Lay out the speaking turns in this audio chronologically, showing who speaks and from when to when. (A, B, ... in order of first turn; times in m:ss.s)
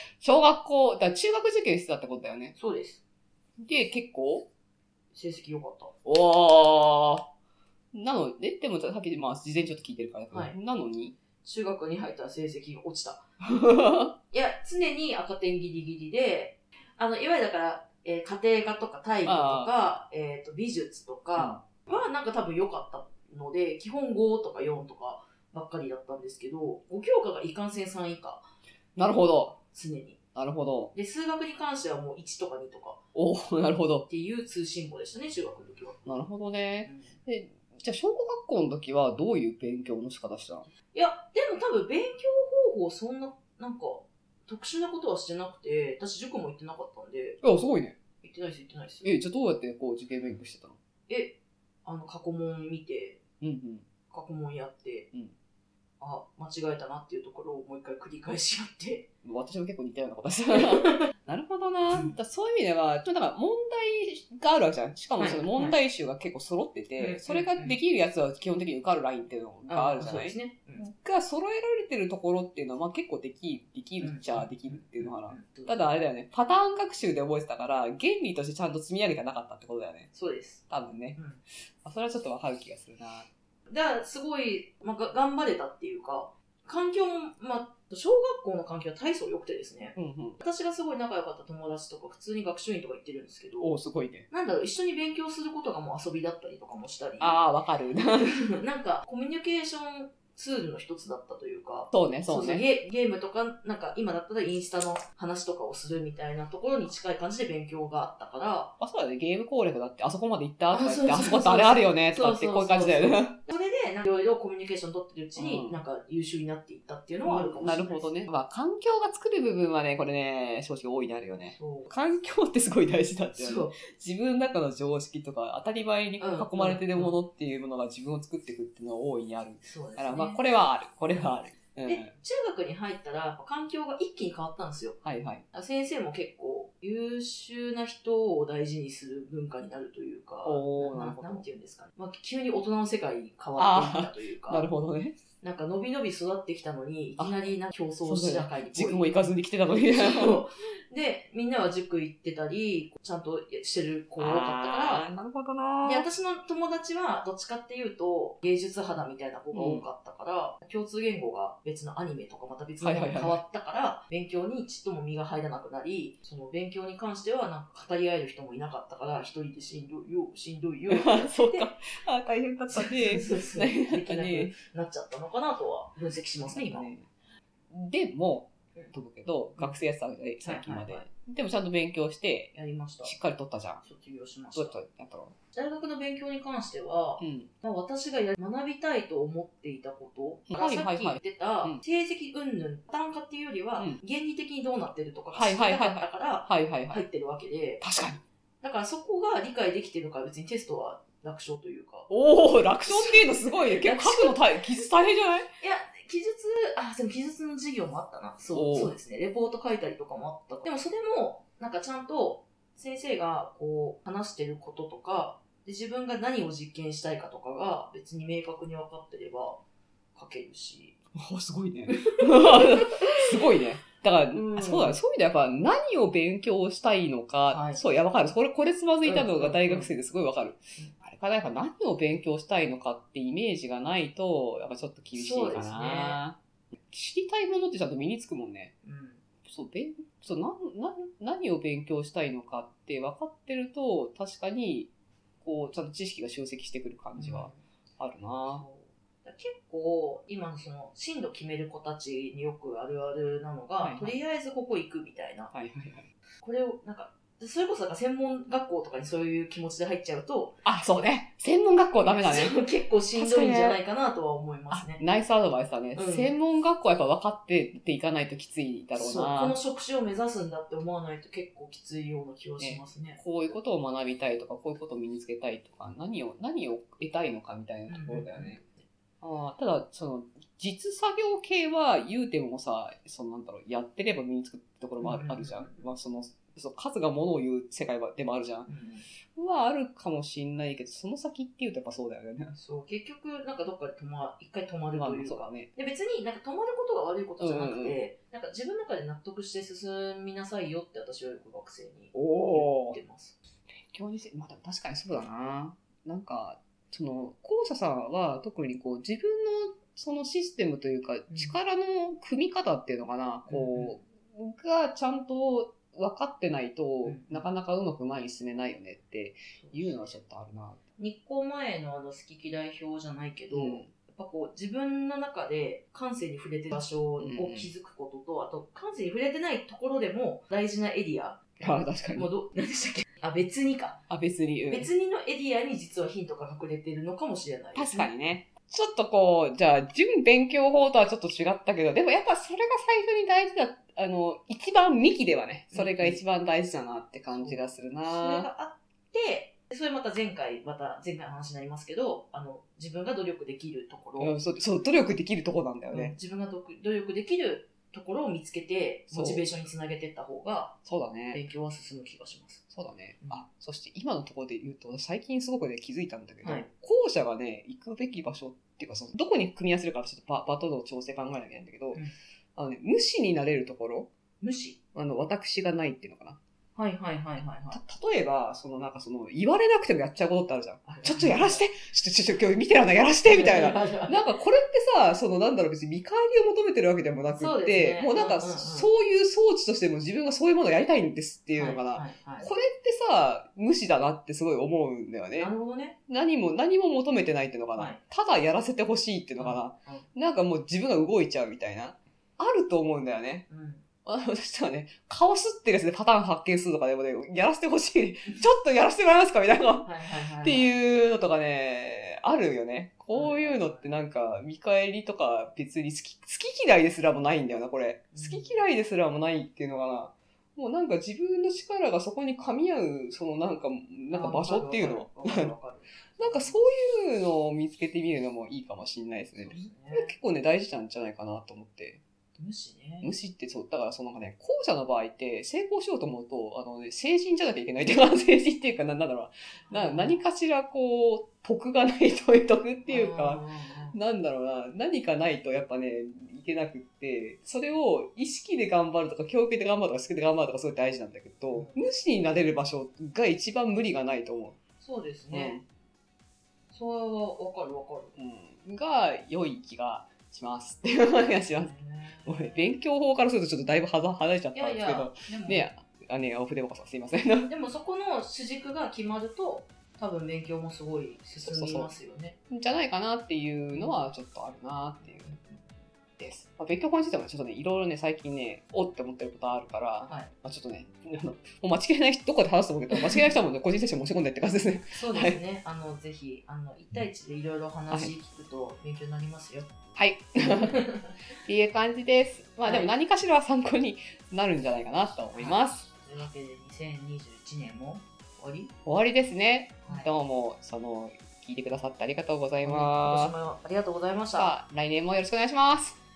0:00.2-0:02.6 A
0:02.6-0:03.0 B
0:03.6-0:04.5 A
0:05.1-0:06.0 B
0:06.0-0:07.3 A
0:07.9-0:11.2 A
0:11.4-0:13.3 B
0:13.4-0:14.1 A
0:14.3-0:28.5 B
0:19.2-0:19.7 A
0:29.0-0:29.6 A
0:29.7-0:30.2 B
0:30.4-0:30.9 A
0:30.9-0:33.0 B
0:33.2-0:34.1 A
0:34.1-0:36.0 B
0:36.0-0:40.7 A
0:36.9-0:37.2 B
0:40.9-0:47.4 B
0:47.4-0:48.0 A
0:48.2-0:49.1 B
0:49.0-0:50.8 A
0:51.1-0:53.2 B
0:53.4-0:53.9 A
0:54.1-0:55.1 B
0:56.0-0:59.1 B
0:59.2-1:20.1 A
1:00.6-1:01.0 B
1:01.9-1:02.2 B
1:05.2-1:05.8 B
1:07.0-1:07.8 B
1:09.7-1:10.9 B
1:14.0-1:15.8 B
1:20.1-1:20.6 B
1:20.7-1:21.2 A
1:21.2-1:21.4 B
1:21.8-1:23.3 A
1:23.7-1:33.7 B
1:30.0-1:30.4 A
1:33.6-1:34.3 A
1:34.3-1:37.4 B
1:37.2-1:38.3 A
1:38.2-1:48.7 B
1:41.9-1:42.6 A
1:48.8-1:53.4 A
1:50.7-1:58.1 B
1:55.4-1:55.8 A
1:57.2-2:12.1 A
2:01.5-2:01.9 B
2:03.3-2:03.8 B
2:06.2-2:07.2 B
2:09.6-2:10.4 B
2:11.8-2:15.0 B
2:15.0-2:15.4 A
2:15.5-2:24.7 B
2:20.4-2:21.4 A
2:23.6-2:25.2 A
2:25.4-2:35.1 B
2:28.0-2:30.4 A
2:34.2-2:36.1 A
2:35.8-2:51.7 B
2:39.5-2:39.8 A
2:42.8-2:43.4 A
2:50.9-2:54.5 A
2:52.7-2:56.9 B
2:56.5-2:57.1 A
2:57.7-3:03.8 A
3:00.4-3:01.1 B
3:02.5-3:03.2 B
3:03.8-3:04.8 B
3:04.6-3:05.4 A
3:05.5-3:17.8 B
3:07.2-3:07.5 A
3:10.5-3:11.8 A
3:15.3-3:17.0 A
3:17.8-3:18.2 A
3:18.6-3:22.1 B
3:22.1-3:25.5 A
3:22.8-3:24.4 B
3:25.6-3:39.6 B
3:28.5-3:29.0 A
3:40.1-3:41.0 B
3:41.2-3:56.4 A
3:41.9-3:43.2 B
3:44.3-3:45.0 B
3:47.5-3:47.8 B
3:49.0-3:49.9 B
3:55.1-3:56.2 B
3:56.9-3:58.7 A
3:58.8-3:59.2 B
3:59.4-4:04.9 A
4:05.4-4:08.6 A
4:07.2-4:07.6 B
4:08.5-4:15.5 B
4:13.8-4:14.2 A
4:15.5-4:16.1 A
4:16.4-4:20.6 B
4:20.6-4:22.6 A
4:22.0-4:25.0 B
4:23.2-4:23.8 A
4:24.7-4:29.6 A
4:26.0-4:26.3 B
4:29.0-4:33.2 B
4:32.6-4:38.6 A
4:37.9-4:38.6 B
4:39.2-4:48.7 A
4:45.0-4:45.9 B
4:48.7-4:49.0 B
4:49.4-4:52.6 A
4:52.6-5:03.4 B
4:55.0-4:55.7 A
4:57.4-4:58.0 A
5:02.1-5:03.0 A
5:03.8-5:20.8 A
5:11.3-5:11.6 B
5:13.5-5:14.0 B
5:17.0-5:17.4 B
5:19.6-5:20.1 B
5:21.0-5:31.6 B
5:23.5-5:23.9 A
5:27.2-5:27.7 A
5:31.6-5:32.3 A
5:32.1-5:34.0 B
5:34.1-5:34.9 A
5:34.7-5:38.1 B
5:37.8-5:48.5 A
5:45.7-5:46.2 B
5:47.3-5:54.4 B
5:54.2-5:56.1 A
5:55.9-6:00.8 B
5:59.1-5:59.5 A
6:00.8-6:01.4 A
6:01.3-6:02.6 B
6:02.7-6:12.0 A
6:12.6-6:14.1 A
6:14.4-6:14.8 B
6:14.9-6:16.4 A
6:16.8-6:17.8 B
6:17.7-6:35.5 A
6:20.9-6:21.6 B
6:23.3-6:24.2 B
6:27.3-6:28.9 B
6:31.6-6:32.5 B
6:35.4-6:36.0 B
6:36.1-6:43.4 A
6:39.4-6:40.1 B
6:43.5-6:43.8 B
6:44.0-7:05.5 A
6:49.8-6:50.7 B
6:53.1-6:53.9 B
6:58.1-6:58.7 B
7:04.1-7:06.6 B
7:06.2-7:12.0 A
7:09.4-7:10.1 B
7:12.4-7:13.1 B
7:13.0-7:34.6 A
7:19.7-7:20.2 B
7:22.9-7:24.0 B
7:31.5-7:31.8 B
7:34.8-7:35.6 B
7:35.3-7:35.6 A
7:36.7-7:38.2 B
7:38.2-7:41.7 A
7:41.5-7:42.5 B
7:42.3-7:47.5 A
7:44.6-7:45.7 B
7:47.5-7:52.4 B
7:51.4-7:51.9 A
7:52.5-7:55.4 A
7:53.7-7:54.0 B
7:55.0-7:55.6 B
7:56.2-8:05.4 A
8:04.9-8:09.7 B
8:10.0-8:10.8 A
8:10.5-8:11.2 B
8:11.4-8:15.9 A
8:12.6-8:12.9 B
8:15.3-8:18.7 B
8:18.8-8:23.3 A
8:22.6-8:24.5 B
8:24.3-8:26.0 A